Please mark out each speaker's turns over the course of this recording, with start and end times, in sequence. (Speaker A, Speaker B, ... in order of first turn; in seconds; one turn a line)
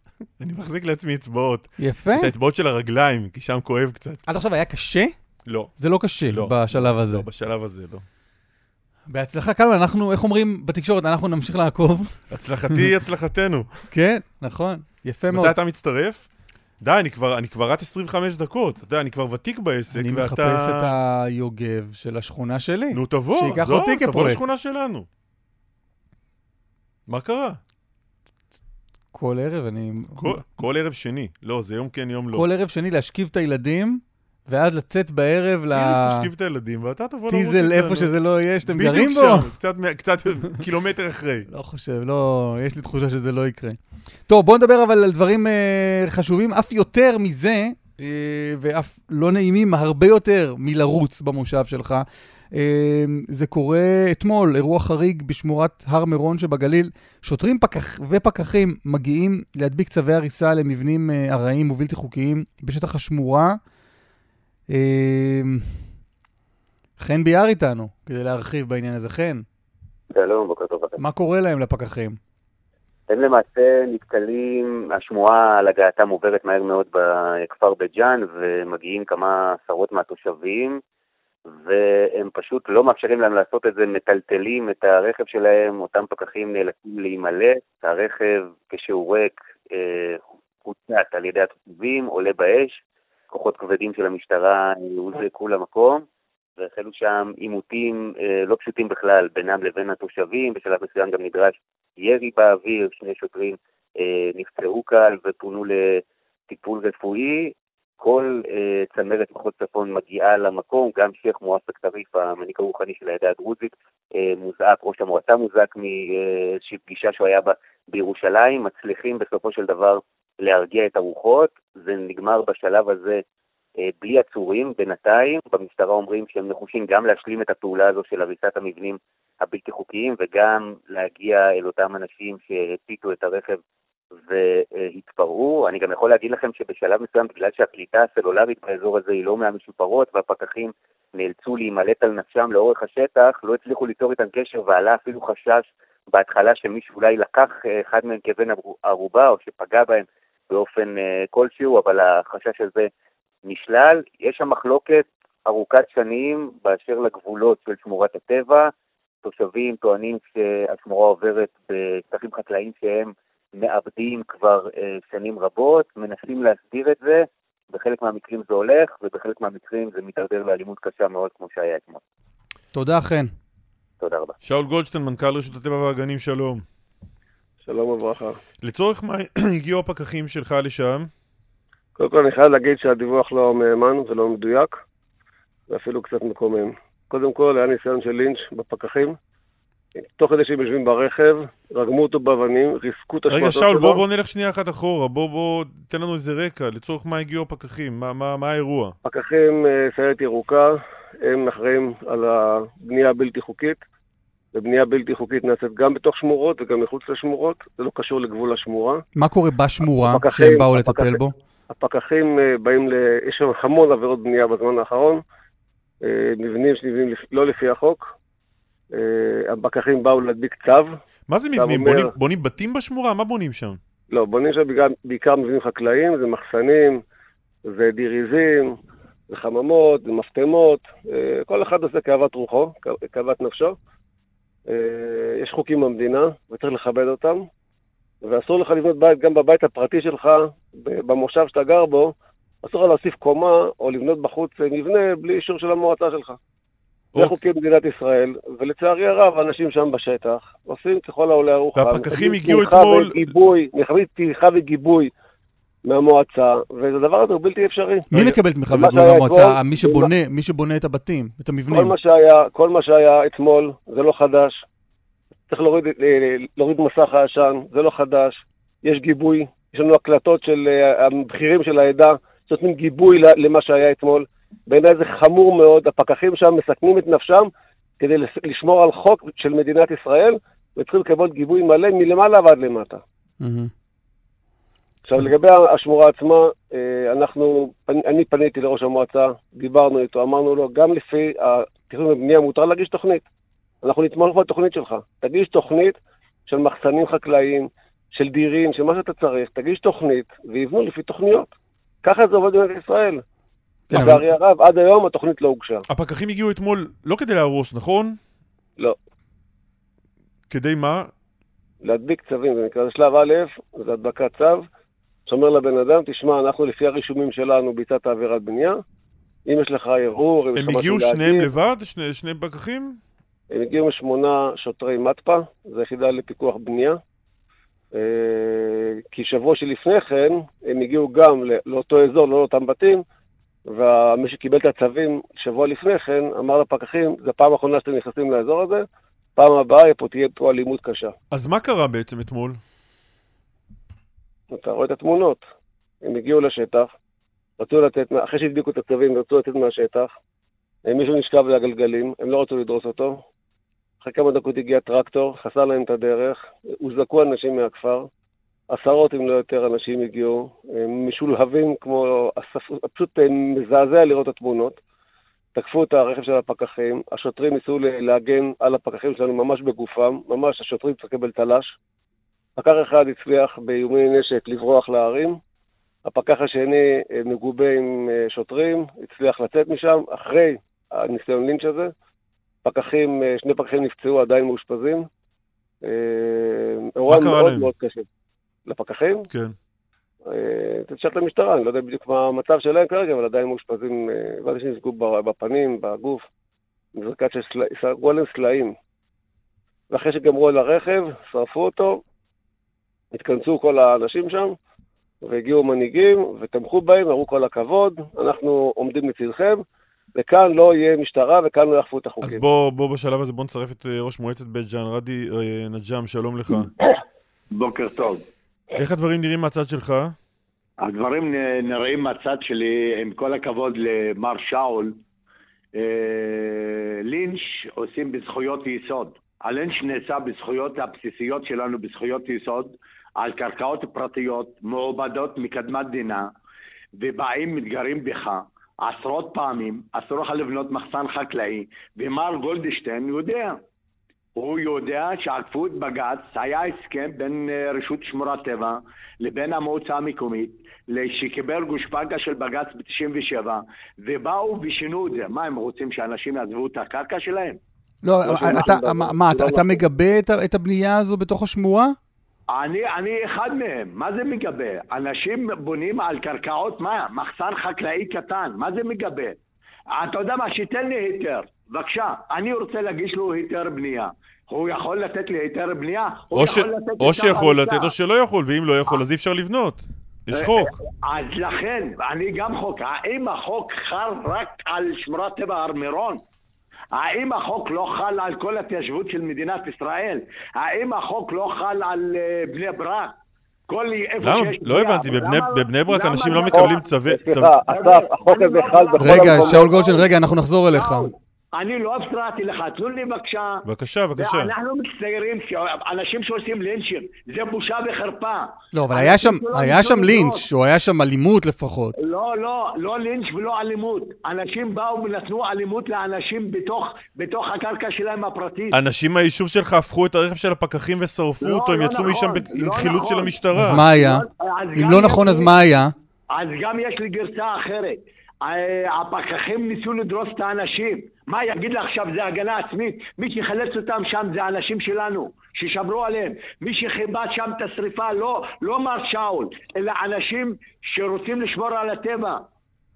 Speaker A: 0.4-4.2
Speaker B: 1.8-2.3
Speaker B: 4.3-5.2
Speaker A: 5.5-5.7
Speaker B: 5.8-7.3
Speaker A: 6.3-8.0
Speaker B: 9.1-12.2
Speaker A: 12.3-13.8
Speaker B: 13.9-15.6
Speaker A: 15.3-16.3
Speaker A: 16.8-20.9
Speaker B: 19.9-24.4
Speaker A: 22.9-25.1
Speaker A: 27.1-27.6
Speaker B: 29.1-30.4
Speaker A: 30.2-32.5
Speaker B: 32.3-36.3
Speaker A: 35.7-38.1
Speaker B: 37.3-39.5
Speaker A: 38.6-41.5
Speaker B: 41.5-63.6
Speaker B: 64.7-65.8
Speaker B: 67.0-69.5
Speaker C: 70.1-71.0
Speaker B: 71.0-72.2
Speaker C: 73.1-80.8
Speaker C: 81.5-92.8
Speaker C: 93.3-96.0
Speaker C: 96.6-123.2
Speaker C: 123.9-133.6
Speaker C: 134.2-152.9
Speaker C: 153.5-158.7
Speaker C: 159.2-172.0
Speaker B: 172.7-173.3
Speaker C: 174.0-174.3
Speaker A: 174.4-176.6
Speaker D: 177.7-178.4
Speaker A: 178.6-181.1
Speaker D: 182.0-184.8
Speaker D: 185.7-189.2
Speaker D: 190.2-194.0
Speaker A: 193.3-199.0
Speaker D: 199.1-203.8
Speaker D: 204.5-209.0
Speaker B: 209.2-211.3
Speaker D: 209.9-211.2
Speaker D: 211.7-215.2
Speaker D: 216.0-218.1
Speaker D: 218.9-220.9
Speaker A: 221.3-223.8
Speaker D: 221.6-222.1
Speaker D: 224.1-227.0
Speaker D: 227.7-228.8
Speaker D: 229.3-233.8
Speaker D: 234.7-237.5
Speaker D: 238.2-246.4
Speaker D: 247.2-255.1
Speaker A: 251.8-253.2
Speaker D: 255.9-258.1
Speaker B: 258.1-261.9
Speaker A: 258.1-258.4
Speaker D: 258.7-260.1
Speaker D: 261.7-264.6
Speaker D: 265.5-277.5
Speaker D: 278.0-283.0
Speaker B: 283.4-283.7
Speaker D: 285.1-293.2
Speaker D: 293.8-296.0
Speaker D: 296.5-301.5
Speaker D: 302.0-303.2
Speaker B: 303.9-304.3
Speaker D: 303.9-305.8
Speaker A: 305.9-308.2
Speaker A: 310.5-311.1
Speaker D: 311.8-314.7
Speaker D: 315.3-318.8
Speaker D: 319.5-321.5
Speaker A: 320.6-323.0
Speaker D: 323.5-327.0
Speaker D: 327.9-333.0
Speaker D: 333.7-338.9
Speaker D: 339.4-341.1
Speaker A: 341.3-342.6
Speaker D: 344.5-345.5
Speaker D: 346.0-346.9
Speaker D: 347.6-350.1
Speaker D: 350.9-353.2
Speaker D: 354.0-358.1
Speaker D: 358.7-364.8
Speaker D: 365.5-371.8
Speaker D: 372.6-375.4
Speaker D: 376.1-381.9
Speaker D: 382.6-385.1
Speaker D: 385.8-388.1
Speaker A: 387.1-387.7
Speaker D: 388.7-389.3
Speaker D: 390.3-396.2
Speaker D: 397.0-398.8
Speaker D: 399.9-402.0
Speaker D: 403.1-404.6
Speaker D: 405.2-409.6
Speaker D: 410.1-412.4
Speaker A: 412.2-416.7
Speaker E: 417.5-418.2
Speaker A: 418.8-420.1
Speaker E: 420.8-425.0
Speaker E: 425.8-436.3
Speaker E: 437.0-443.6
Speaker E: 444.4-457.6
Speaker B: 458.0-462.0
Speaker D: 458.2-459.8
Speaker E: 462.5-469.4
Speaker E: 469.9-477.9
Speaker A: 476.4-480.7
Speaker E: 480.3-486.2
Speaker E: 486.9-493.1
Speaker E: 493.7-496.9
Speaker A: 494.2-497.6
Speaker D: 496.5-499.9
Speaker E: 497.7-500.1
Speaker B: 499.0-501.1
Speaker E: 500.7-510.5
Speaker A: 503.7-504.5
Speaker B: 508.7-511.9
Speaker E: 512.0-518.8
Speaker A: 518.7-523.8
Speaker E: 521.4-525.6
Speaker B: 523.5-526.0
Speaker E: 526.3-542.5